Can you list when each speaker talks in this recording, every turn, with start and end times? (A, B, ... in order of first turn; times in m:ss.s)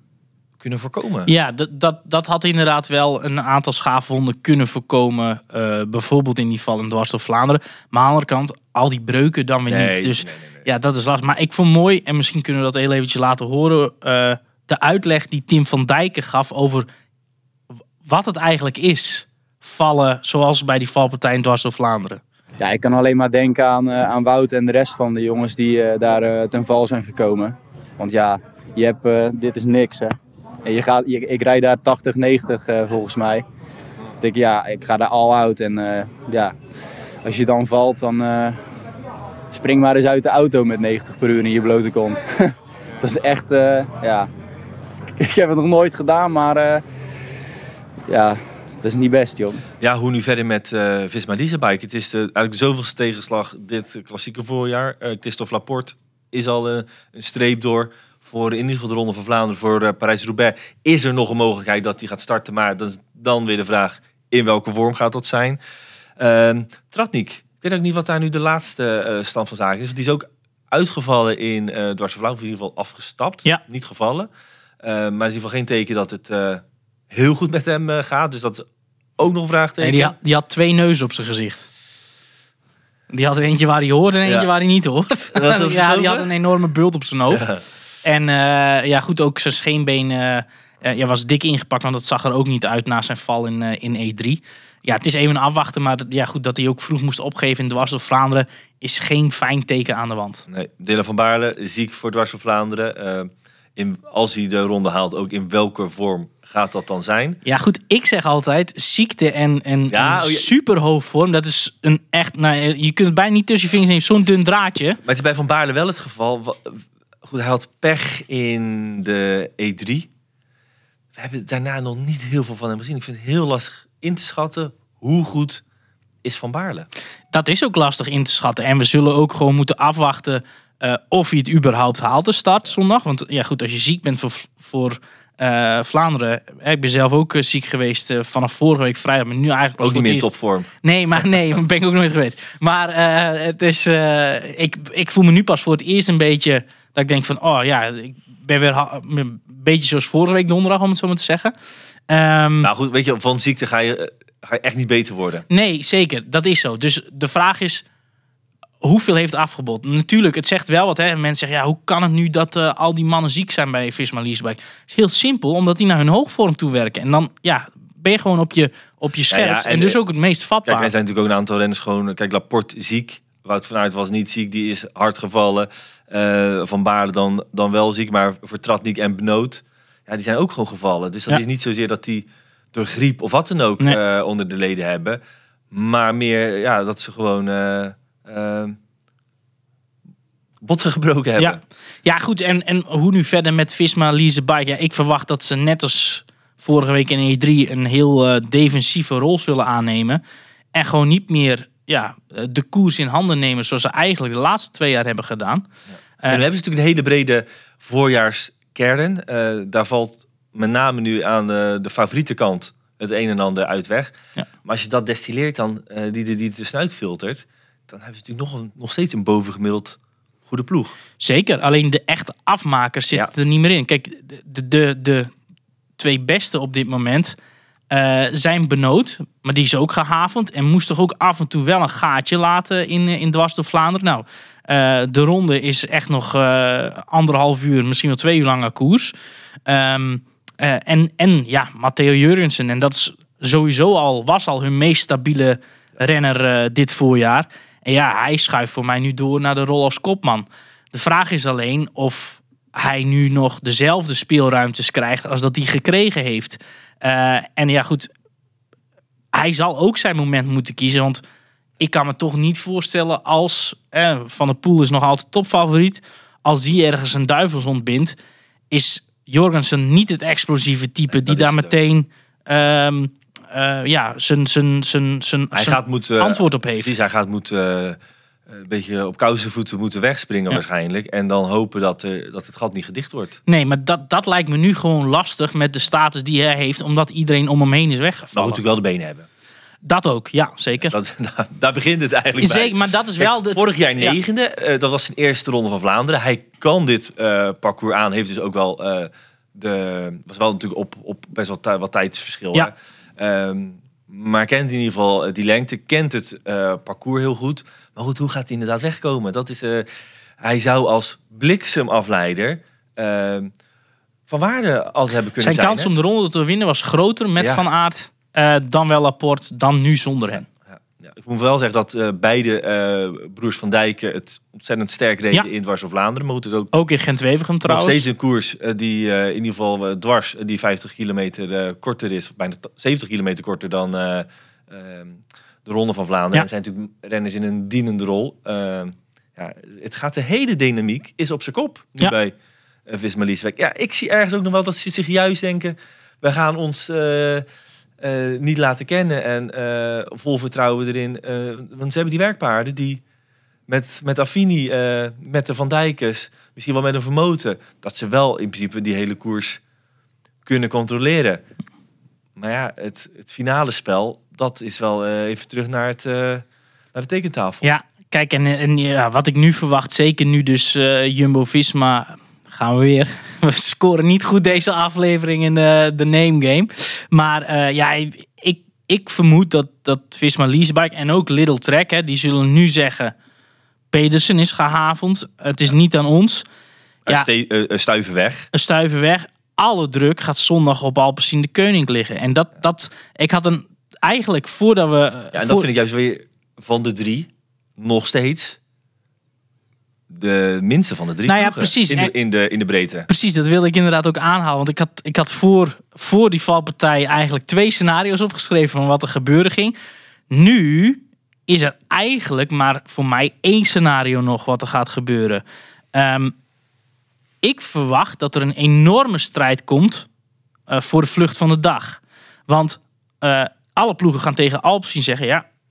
0:00.6-0:01.3 A
0:01.2-0:16.8 B
0:09.7-0:10.7 A
0:18.0-0:22.2 B
0:22.6-0:33.4 C
0:34.2-0:36.5 C
0:37.2-0:38.6 C
0:39.5-0:42.2 C
0:43.0-0:44.3 C
0:45.2-0:46.8 C
0:48.1-0:49.6 C
0:49.8-1:05.6 A
1:06.2-1:14.3 A
1:14.8-1:18.6 A
1:19.2-1:20.1 A
1:19.8-1:21.7 B
1:23.1-1:27.4 B
1:25.3-1:26.3 A
1:27.3-1:27.6 A
1:28.0-1:40.4 B
1:40.5-1:47.4 A
1:47.4-1:55.0 B
1:49.9-1:50.5 A
1:55.0-2:00.1 A
2:01.1-2:05.6 A
2:06.2-2:06.9 A
2:07.3-2:20.3 B
2:19.8-2:21.4 A
2:20.8-2:31.5 B
2:32.1-2:32.7 B
2:32.6-2:35.4 A
2:35.5-2:37.8 B
2:38.8-2:50.9 B
2:49.3-2:50.0 A
2:50.6-3:05.2 A
3:05.7-3:08.8 A
3:10.6-3:11.6 A
3:11.4-3:20.2 B
3:20.7-3:25.6 B
3:26.3-3:41.0 A
3:41.2-3:45.3 B
3:46.0-3:47.3 B
3:47.9-3:59.1 B
3:59.7-4:18.1 B
4:19.3-4:21.2 B
4:21.8-4:28.1 B
4:28.7-4:36.9 B
4:31.1-4:31.7 A
4:35.5-4:43.4 A
4:43.5-4:48.6 B
4:48.3-4:49.3 A
4:49.8-4:50.9 B
4:50.8-5:09.8 A
4:52.4-4:54.2 B
5:10.4-5:13.5 A
5:14.3-5:15.9 A
5:15.4-5:20.5 B
5:17.4-5:17.6 A
5:20.7-5:26.7 A
5:26.7-5:28.0 B
5:27.6-5:42.3 A
5:42.9-5:47.4 A
5:48.0-5:53.0 A
5:53.7-5:59.6 A
6:00.4-6:01.4 A
6:02.4-6:07.7 A
6:07.6-6:23.1 B
6:23.9-6:26.4 B
6:27.0-6:28.5 A
6:28.5-6:35.7 B
6:35.3-6:38.6 A
6:40.1-6:43.1 A
6:41.2-6:42.1 B
6:43.1-6:49.7 B
6:50.3-6:55.4 B
6:55.9-6:56.3 B
6:57.4-7:00.1 B
7:00.7-7:05.4 B